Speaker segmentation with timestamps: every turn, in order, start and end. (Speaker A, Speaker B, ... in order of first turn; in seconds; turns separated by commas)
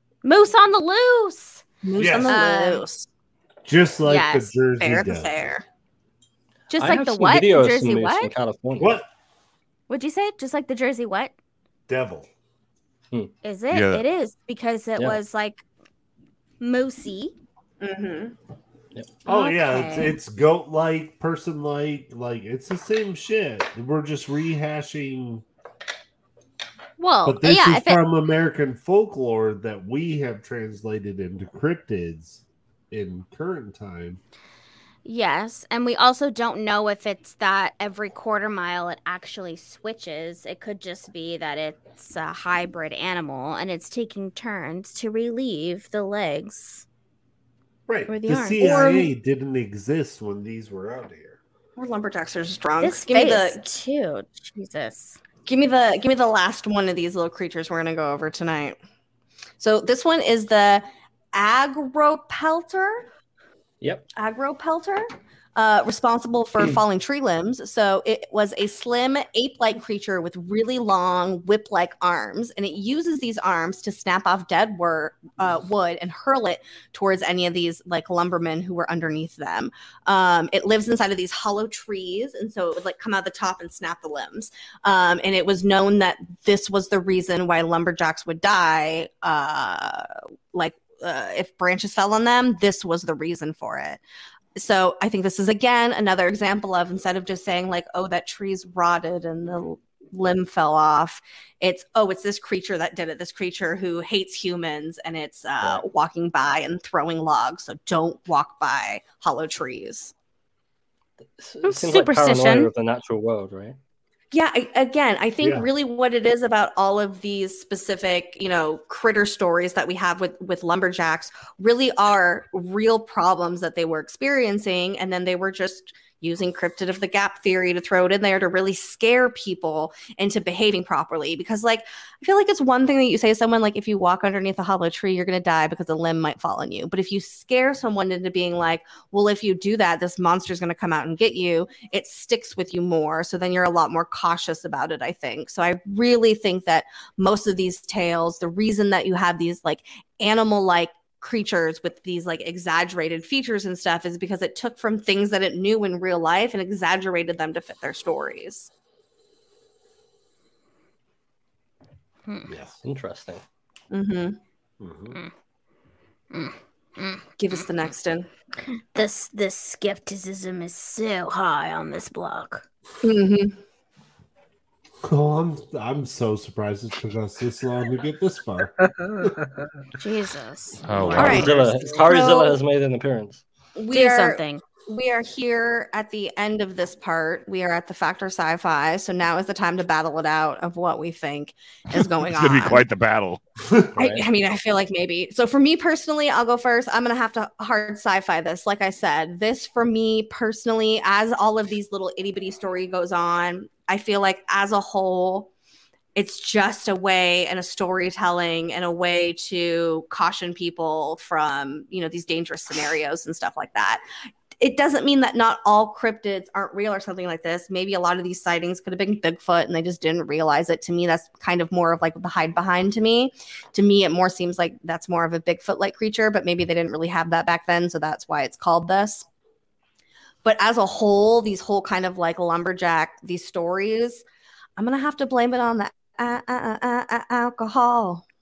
Speaker A: 0.2-1.6, Speaker B: 1.8-3.1, Speaker C: 2.0-2.4, Speaker A: 2.3-2.8, Speaker C: 3.6-5.3, Speaker A: 4.0-4.5, Speaker B: 4.8-5.6, Speaker A: 6.7-8.3, Speaker D: 6.7-9.0, Speaker C: 8.8-9.1, Speaker A: 9.9-11.3, Speaker C: 11.9-12.3, Speaker A: 13.4-15.6, Speaker E: 13.7-14.0, Speaker A: 16.6-17.3, Speaker B: 17.8-18.3, Speaker A: 19.2-20.2, Speaker C: 19.2-25.4, Speaker A: 27.0-28.0, Speaker C: 27.2-34.2, Speaker A: 35.0-46.8, Speaker C: 47.9-51.4, Speaker A: 48.1-49.0, Speaker B: 48.6-49.0, Speaker B: 51.8-53.6, Speaker A: 52.8-55.2, Speaker B: 55.5-58.8, Speaker B: 59.6-63.1, Speaker D: 63.8-64.1, Speaker B: 64.1-94.0, Speaker B: 94.5-110.1, Speaker D: 111.4-113.8, Speaker A: 111.6-112.7, Speaker B: 114.3-158.7, Speaker C: 115.4-115.7, Speaker C: 162.5-162.8, Speaker D: 162.8-163.4, Speaker B: 163.9-164.4, Speaker C: 164.8-165.2, Speaker A: 166.3-167.6, Speaker B: 167.4-168.3, Speaker A: 168.7-172.6, Speaker B: 173.0-173.5, Speaker C: 175.0-179.3, Speaker D: 179.0-179.5, Speaker A: 179.9-182.0, Speaker E: 180.8-181.5, Speaker D: 181.1-183.4, Speaker B: 181.2-181.5, Speaker B: 182.1-182.6, Speaker B: 183.8-192.8, Speaker A: 183.9-184.6, Speaker E: 192.0-193.4, Speaker C: 193.6-194.0, Speaker B: 194.0-205.5, Speaker B: 206.1-214.0, Speaker B: 214.6-229.3, Speaker B: 230.4-234.2, Speaker B: 234.8-238.2